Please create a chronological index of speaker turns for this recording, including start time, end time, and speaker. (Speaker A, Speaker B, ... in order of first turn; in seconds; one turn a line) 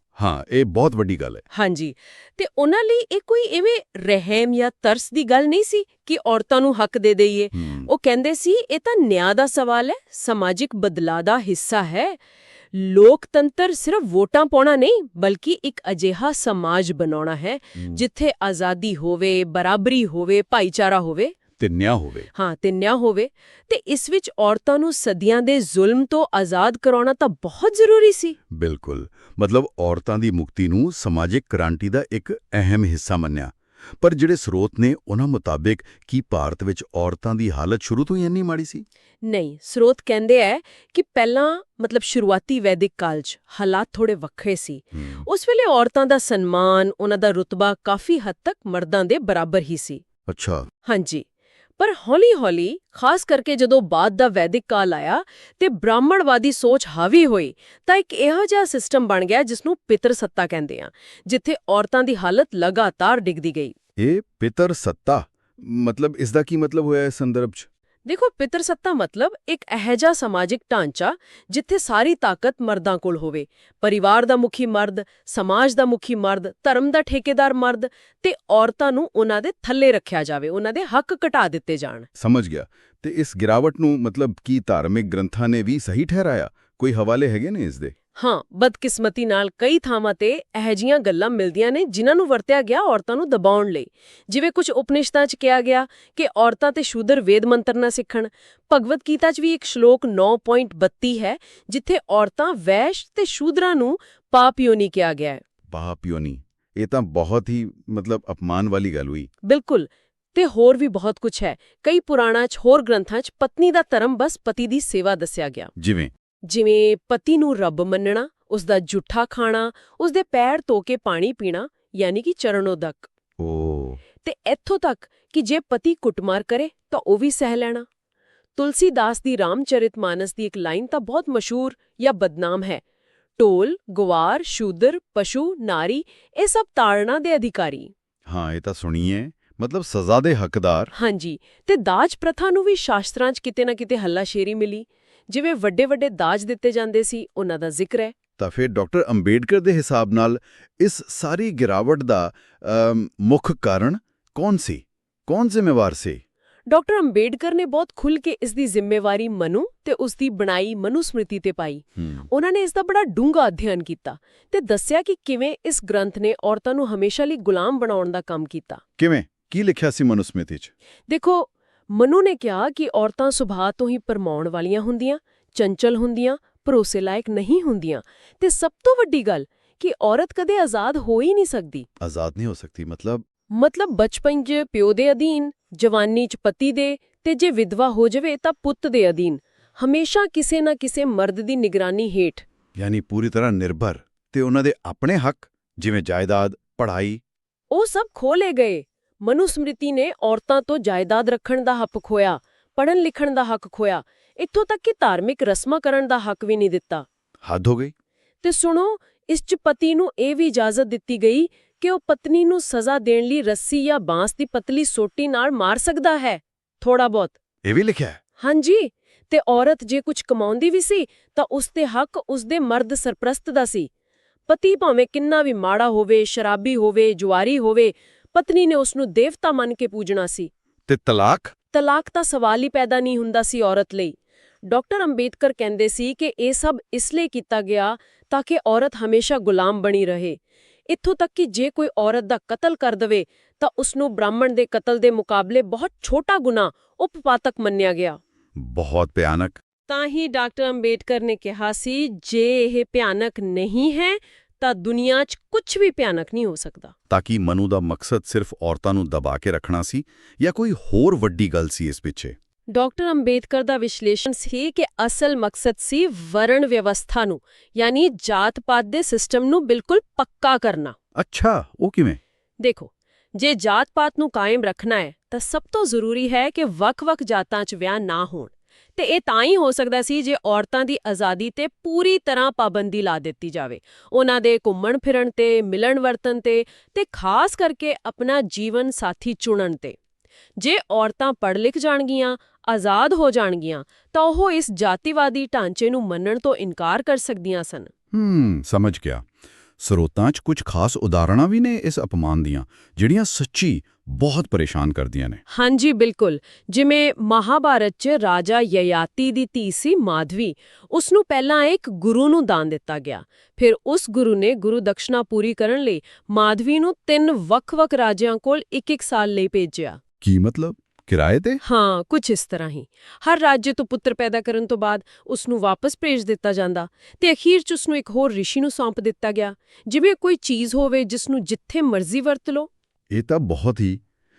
Speaker A: 0.2-1.4
Speaker B: 1.5-12.2
Speaker A: 7.5-7.9
Speaker B: 12.7-21.3
Speaker A: 17.8-18.0
Speaker A: 21.6-22.3
Speaker B: 22.3-28.4
Speaker A: 28.5-38.8
Speaker B: 39.2-50.0
Speaker A: 45.0-45.2
Speaker A: 50.3-50.7
Speaker B: 50.8-51.2
Speaker B: 51.8-63.7
Speaker A: 64.0-67.7
Speaker B: 68.0-82.1
Speaker A: 82.2-87.9
Speaker B: 88.2-105.4
Speaker A: 105.7-109.3
Speaker B: 109.4-115.7
Speaker A: 115.8-116.1
Speaker B: 116.4-123.1
Speaker A: 123.4-124.0
Speaker B: 124.2-127.8
Speaker B: 128.6-132.8
Speaker B: 133.4-137.9
Speaker A: 138.3-140.9
Speaker B: 140.9-148.1
Speaker A: 148.4-156.2
Speaker B: 156.7-168.8
Speaker A: 162.0-162.2
Speaker A: 169.0-170.7
Speaker B: 171.1-181.8
Speaker A: 182.0-183.2
Speaker B: 183.5-192.5
Speaker A: 192.7-197.2
Speaker B: 197.7-207.1
Speaker A: 207.4-207.9
Speaker B: 208.4-217.3
Speaker A: 217.6-218.2
Speaker B: 218.4-223.9
Speaker B: 224.5-230.5
Speaker A: 230.9-231.5
Speaker B: 231.7-248.2
Speaker A: 248.6-249.6
Speaker B: 249.9-256.9
Speaker A: 257.1-262.4
Speaker B: 262.7-271.0
Speaker A: 271.1-272.2
Speaker B: 272.6-290.0
Speaker B: 290.6-297.9
Speaker A: 298.1-299.2
Speaker A: 299.8-305.4
Speaker B: 305.5-320.0
Speaker A: 320.2-321.6
Speaker B: 321.6-332.7
Speaker A: 333.1-334.0